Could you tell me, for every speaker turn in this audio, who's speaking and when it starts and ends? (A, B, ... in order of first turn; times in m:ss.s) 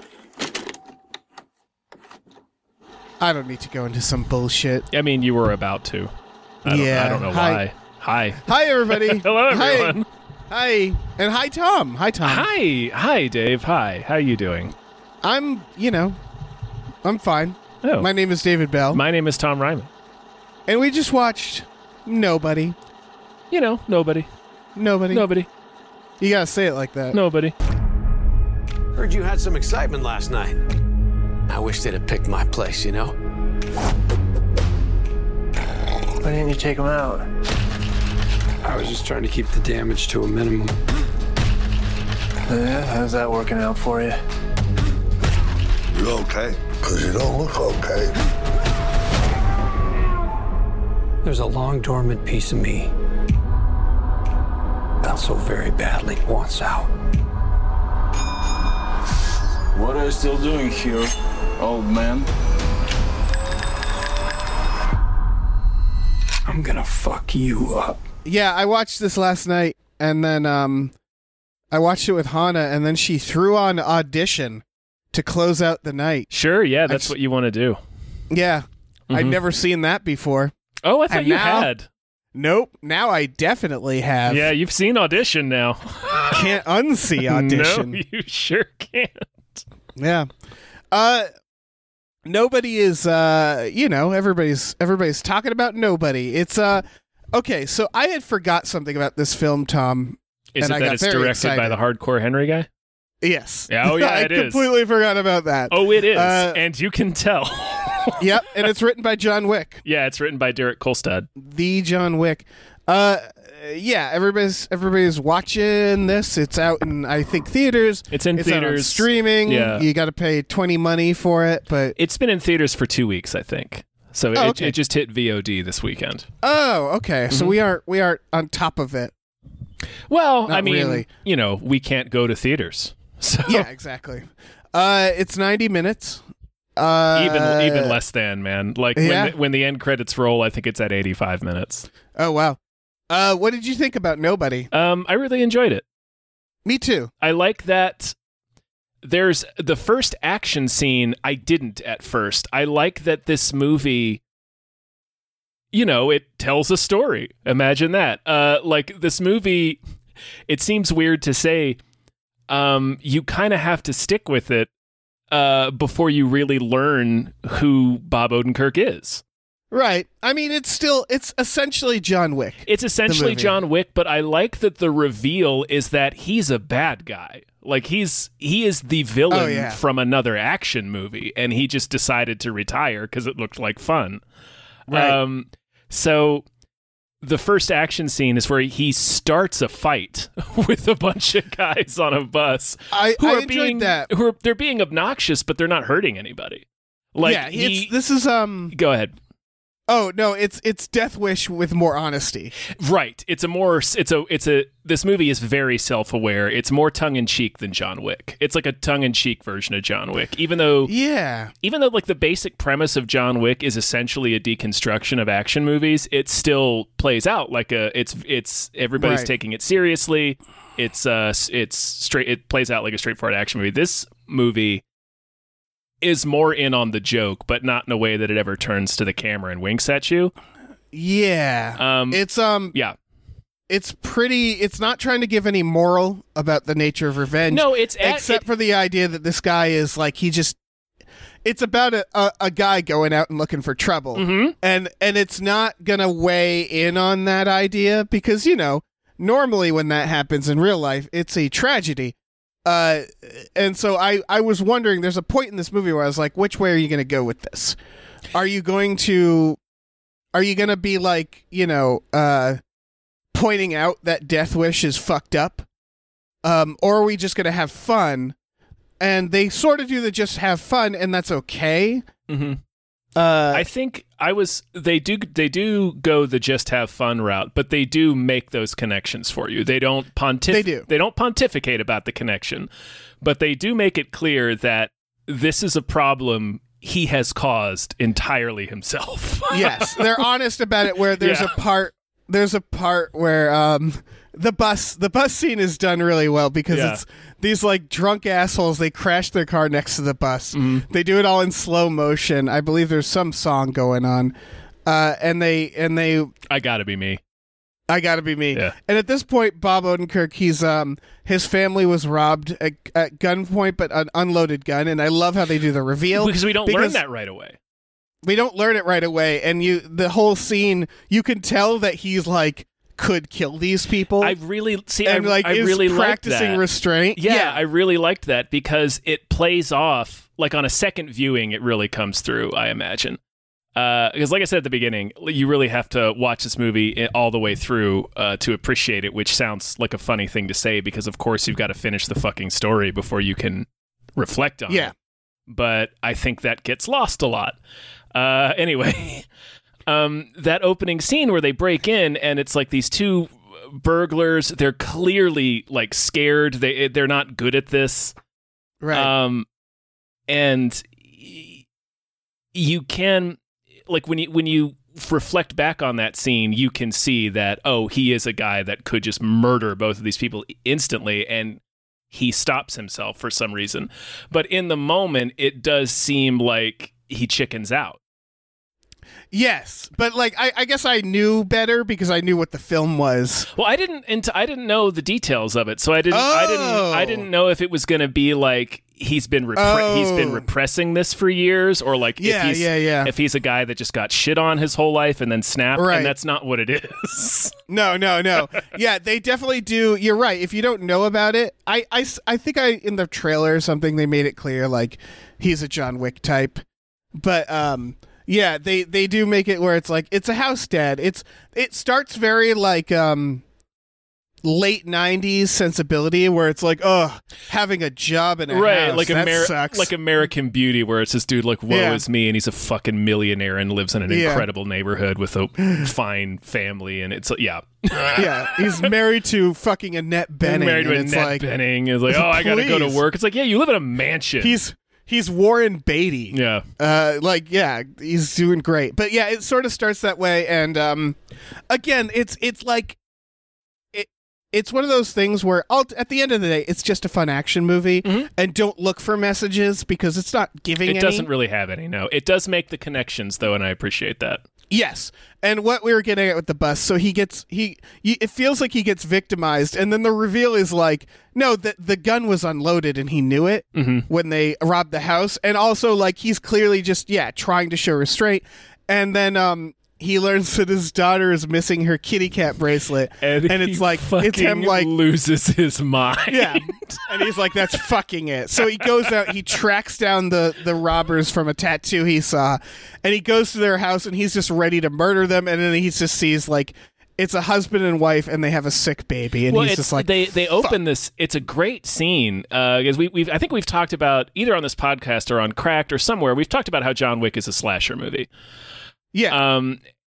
0:03.2-0:04.8 A
0:04.9-0:06.1 B
0:06.6-0:10.0 B
0:06.6-0:07.6 A
0:08.4-0:10.0 A
0:10.5-0:12.5 A
0:12.2-0:14.7 B
0:15.2-0:16.2 A
0:17.0-0:19.0 A
0:17.8-0:18.1 B
0:18.9-0:19.9 B
0:20.7-0:22.8 A
0:23.5-0:24.3 B
0:24.8-0:25.3 A
0:25.1-0:25.5 B
0:26.2-0:27.2 A
0:27.1-0:27.5 B
0:29.0-0:30.6 C
0:31.5-0:33.1 C
0:36.2-0:37.2 D
0:38.6-0:40.8 E
0:42.5-0:44.2 D
0:45.9-0:48.1 F
0:51.2-0:52.9 E
0:55.0-0:56.9 E
0:59.7-1:02.3 G
1:06.4-1:08.0 E
1:08.2-1:10.9 A
1:11.7-1:16.3 A
1:16.3-1:17.8 B
1:16.9-1:17.1 A
1:18.3-1:20.5 A
1:19.1-1:19.4 B
1:20.8-1:21.9 B
1:21.1-1:21.7 A
1:22.3-1:24.5 A
1:24.3-1:26.4 B
1:26.3-1:28.0 A
1:27.2-1:29.6 B
1:30.0-1:30.3 A
1:30.9-1:31.3 A
1:32.2-1:41.8 A
1:40.5-1:42.7 B
1:43.2-1:46.6 A
1:43.7-1:44.7 B
1:45.7-1:48.3 B
1:48.2-1:49.8 A
1:49.8-1:51.3 B
1:51.4-2:01.9 A
1:58.1-1:59.8 B
2:02.0-2:06.3 B
2:04.3-2:04.8 A
2:06.4-2:09.1 A
2:10.1-2:13.7 B
2:10.5-2:11.1 A
2:13.4-2:16.2 A
2:16.8-2:17.9 A
2:17.1-2:21.9 B
2:19.0-2:19.4 A
2:22.2-2:22.6 A
2:23.1-2:24.7 A
2:24.7-2:25.8 B
2:26.6-2:27.1 A
2:27.2-2:28.1 B
2:29.0-2:34.2 B
2:35.7-2:39.8 B
2:40.5-2:41.8 B
2:42.5-2:44.7 B
2:45.3-2:49.2 B
2:49.7-2:53.5 A
2:52.7-3:04.2 B
2:59.3-2:59.8 A
3:04.9-3:05.2 A
3:04.9-3:06.4 B
3:07.2-3:17.9 B
3:12.9-3:14.1 A
3:17.2-3:18.7 A
3:18.7-3:19.1 B
3:19.9-3:22.5 A
3:22.7-3:30.9 B
3:30.8-3:31.5 A
3:31.6-3:44.8 B
3:39.0-3:39.3 A
3:46.0-3:50.3 B
3:50.9-3:52.7 A
3:51.8-3:52.9 B
3:53.7-4:00.6 A
3:57.5-3:58.4 B
4:01.4-4:17.8 A
4:04.1-4:04.5 B
4:18.3-4:19.6 A
4:20.3-4:22.6 A
4:23.3-4:25.6 A
4:26.4-4:28.3 A
4:29.0-4:32.0 A
4:32.3-4:32.6 B
4:33.2-4:33.7 A
4:33.5-4:42.7 B
4:40.5-4:40.8 A
4:43.2-4:50.2 B
4:49.5-5:04.3 A
4:51.1-4:51.6 B
4:56.7-4:57.0 B
5:00.5-5:00.8 B
5:04.8-5:06.3 A
5:06.5-5:07.2 B
5:07.9-5:17.0 A
5:16.1-5:17.6 B
5:18.2-5:24.4 A
5:24.2-5:26.6 B
5:25.0-5:27.6 A
5:27.2-5:33.2 B
5:33.7-5:44.9 B
5:45.5-5:47.6 B
5:48.1-5:49.2 B
5:49.9-5:58.1 B
5:58.8-5:59.1 A
5:58.9-5:59.4 B
6:00.3-6:01.6 B
6:02.5-6:11.6 B
6:12.1-6:18.0 B
6:19.3-6:23.5 A
6:23.5-6:37.5 B
6:26.1-6:27.3 A
6:29.6-6:30.5 A
6:32.2-6:33.1 A
6:35.8-6:36.1 A
6:37.7-6:53.4 A
6:54.4-6:59.9 A
6:58.5-7:08.8 B
7:01.7-7:02.0 A
7:04.1-7:04.5 A
7:08.1-7:11.5 A
7:10.4-7:14.6 B
7:12.1-7:13.0 A
7:14.4-7:21.2 A
7:16.3-7:16.6 B
7:21.7-7:23.0 A
7:23.9-7:31.3 A
7:30.8-7:34.4 B
7:34.7-7:54.9 A
7:43.7-7:44.1 B
7:53.2-7:57.1 B
7:56.3-8:10.8 A
8:09.5-8:18.3 B
8:19.1-8:19.4 A
8:19.3-8:19.8 B